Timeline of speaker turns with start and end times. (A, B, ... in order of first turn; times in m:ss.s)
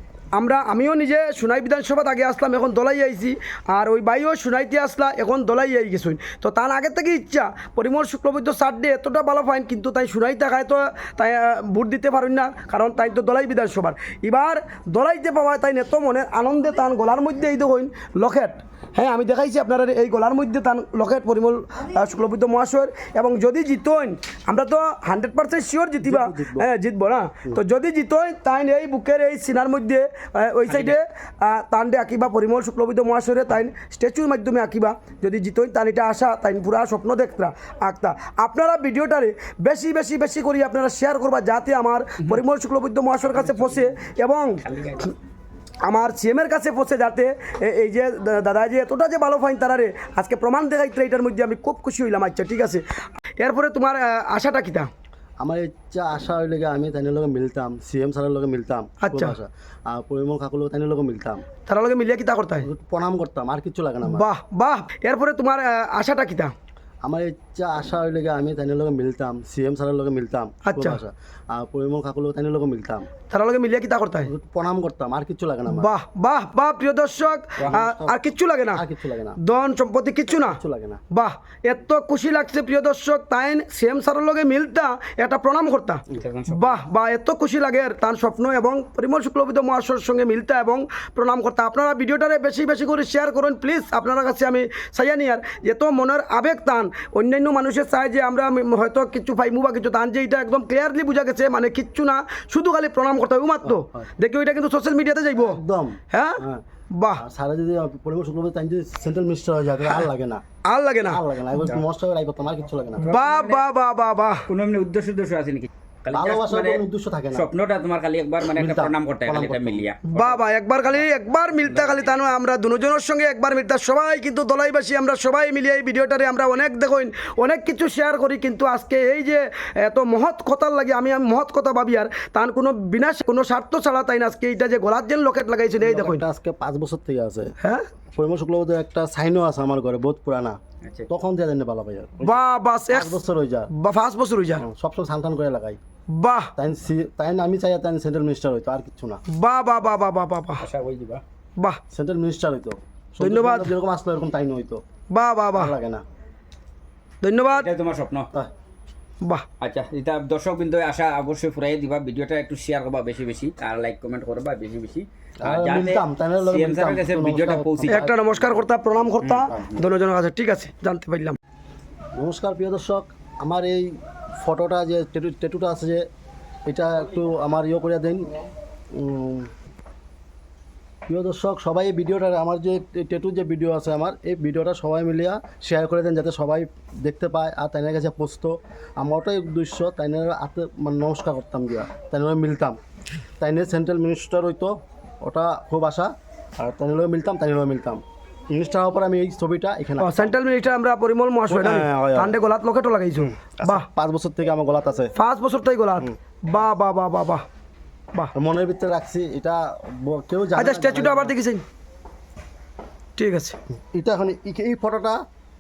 0:00.3-0:45.1 A
0:26.0-0:26.7 B
0:30.7-0:31.0 C
0:43.3-0:43.9 C
0:44.6-0:45.1 C
0:45.8-0:52.8 A
0:53.4-0:54.9 A
0:55.4-1:01.4 B
0:59.0-0:59.4 A
1:01.6-1:02.7 A
1:02.6-1:04.3 B
1:04.0-1:06.5 A
1:07.0-1:13.1 B
1:10.6-1:11.0 A
1:13.3-1:14.3 A
1:14.2-1:15.9 B
1:15.7-1:18.8 A
1:17.6-1:18.2 B
1:18.7-1:19.4 B
1:19.4-1:20.6 A
1:20.4-1:21.0 B
1:21.1-1:46.4 A
1:26.1-1:26.8 C
1:43.6-1:44.1 B
1:45.3-1:46.6 B
1:47.0-1:47.2 A
1:47.2-1:50.4 B
1:50.7-1:51.2 A
1:51.0-1:53.1 B
1:53.0-1:53.6 C
1:53.0-1:54.4 A
1:54.5-2:00.4 C
1:56.1-1:57.5 B
1:58.4-1:59.8 B
2:00.0-2:16.2 A
2:01.6-2:02.1 C
2:15.8-2:17.5 B
2:17.6-2:17.9 A
2:18.1-2:23.7 B
2:20.8-2:21.1 C
2:22.2-2:23.2 A
2:23.7-2:24.6 A
2:24.6-2:25.8 B
2:26.1-2:26.5 A
2:26.6-2:29.2 B
2:29.3-2:30.6 A
2:30.6-2:31.2 C
2:31.9-2:34.8 B
2:33.2-2:33.7 A
2:35.1-2:35.7 A
2:35.6-2:36.0 B
2:37.2-2:37.7 A
2:37.5-2:38.3 C
2:39.6-2:48.0 C
2:45.4-2:48.4 B
2:47.9-2:51.4 A
2:49.2-2:49.5 C
2:49.3-2:49.8 B
2:52.1-2:56.0 B
2:56.6-2:58.3 B
2:58.9-2:59.5 B
3:01.1-3:12.8 B
3:13.4-3:20.3 B
3:20.0-3:23.8 A
3:21.5-3:22.3 B
3:23.4-3:25.1 B
3:25.2-3:27.4 A
3:28.3-3:31.4 B
3:30.6-3:31.6 A
3:33.2-3:33.6 A
3:33.9-3:35.2 B